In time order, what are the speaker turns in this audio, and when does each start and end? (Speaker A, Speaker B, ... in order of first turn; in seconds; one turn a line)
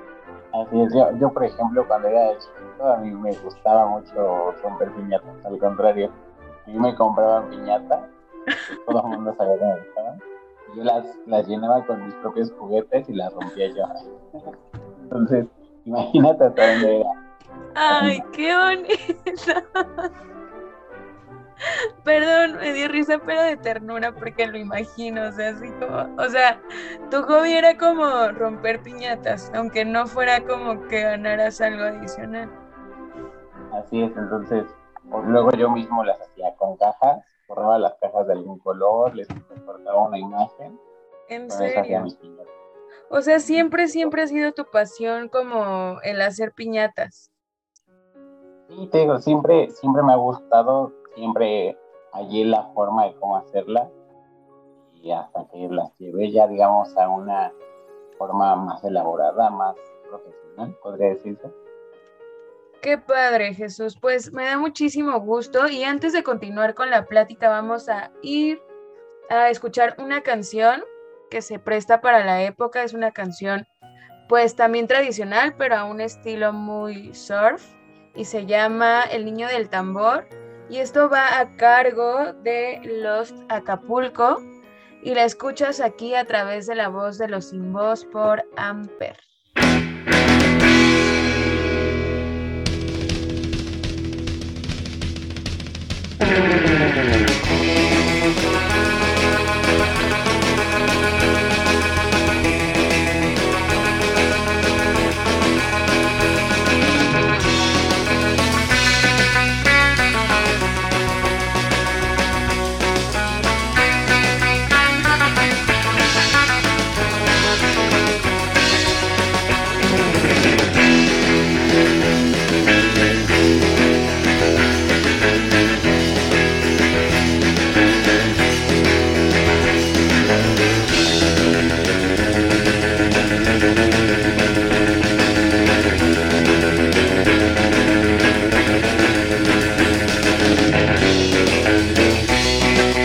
Speaker A: 0.5-6.1
Speaker A: 6.7-8.1
Speaker A: 8.7-13.9
Speaker A: 15.1-17.1
Speaker B: 17.8-20.1
Speaker A: 17.9-18.2
Speaker B: 22.0-32.5
Speaker A: 33.7-40.8
Speaker B: 41.3-42.1
Speaker A: 41.5-42.5
Speaker B: 43.1-47.3
Speaker A: 43.9-44.1
Speaker A: 48.7-53.9
Speaker A: 54.9-57.5
Speaker A: 58.2-61.5
Speaker B: 62.8-68.6
Speaker B: 69.3-73.7
Speaker B: 74.3-84.4
Speaker B: 85.0-89.2